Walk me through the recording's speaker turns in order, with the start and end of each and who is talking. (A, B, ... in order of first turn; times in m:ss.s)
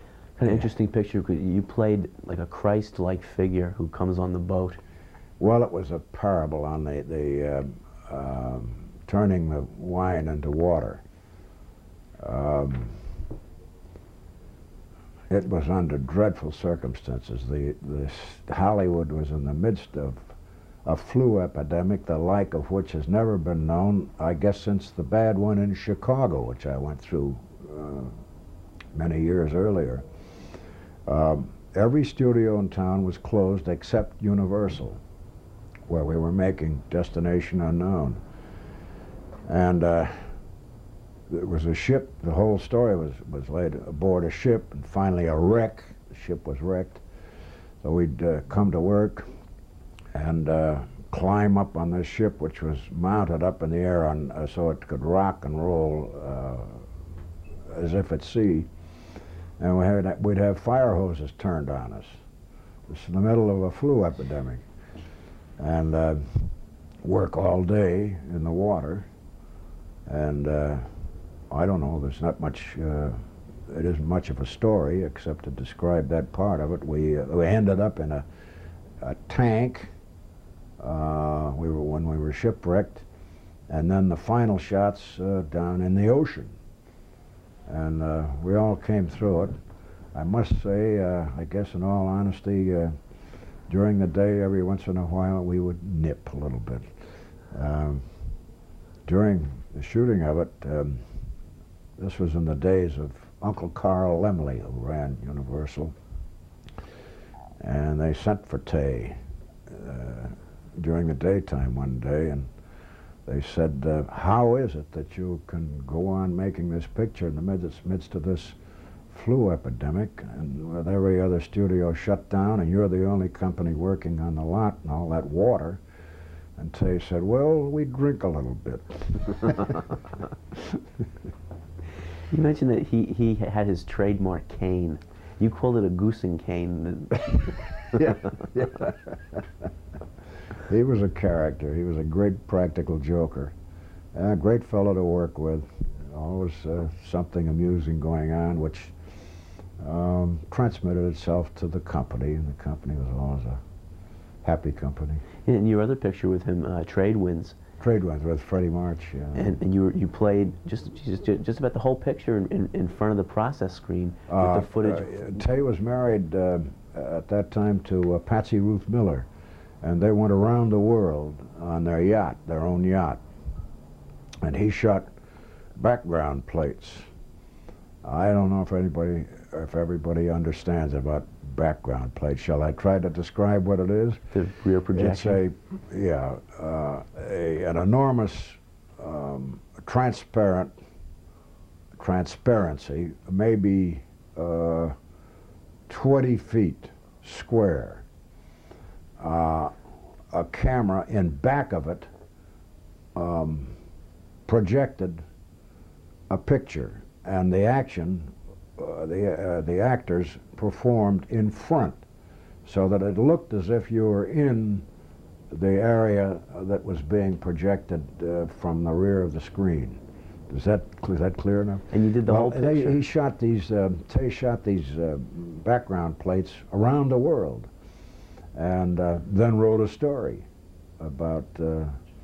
0:00.4-0:04.8 A
0:05.4-0:11.0 B
0:12.2-0:13.0 B
0:15.3-0:20.3 B
0:20.8-0:28.1 B
0:28.9-0:30.1 B
0:31.1-0:35.0 B
0:35.9-0:38.2 B
0:39.5-0:40.3 B
0:41.3-0:47.0 B
0:47.8-0:49.3 B
0:50.1-0:56.9 B
0:57.7-0:58.7 B
0:59.6-1:02.2 B
1:02.9-1:04.6 B
1:05.6-1:09.1 B
1:10.1-1:10.9 B
1:11.5-1:18.2 B
1:19.0-1:19.9 B
1:20.8-1:23.1 B
1:23.7-1:26.6 B
1:27.7-1:29.6 B
1:30.1-1:33.0 B
1:33.7-1:36.9 B
1:37.5-1:38.3 B
1:39.1-1:41.1 B
1:42.0-1:45.9 B
1:47.6-1:52.5 B
1:53.3-1:58.6 B
1:59.1-2:05.8 B
2:06.6-2:09.9 B
2:12.3-2:18.0 A
2:18.0-2:19.4 B
2:20.7-2:23.6 B
2:24.1-2:33.6 B
2:34.4-2:35.2 B
2:35.4-2:37.6 A
2:37.8-2:39.5 B
2:39.4-2:45.4 A
2:44.3-2:49.3 B
2:49.8-2:53.2 B
2:54.4-2:55.1 B
2:55.8-2:57.1 B
2:58.0-3:04.4 B
3:04.3-3:05.4 A
3:04.9-3:10.7 B
3:12.0-3:15.0 B
3:15.9-3:18.1 B
3:19.2-3:19.7 B
3:20.3-3:22.1 B
3:23.2-3:23.8 B
3:24.5-3:25.2 B
3:26.3-3:32.0 B
3:32.6-3:34.9 B
3:35.5-3:47.7 B
3:41.9-3:43.0 A
3:48.5-3:50.5 B
3:51.0-3:52.0 B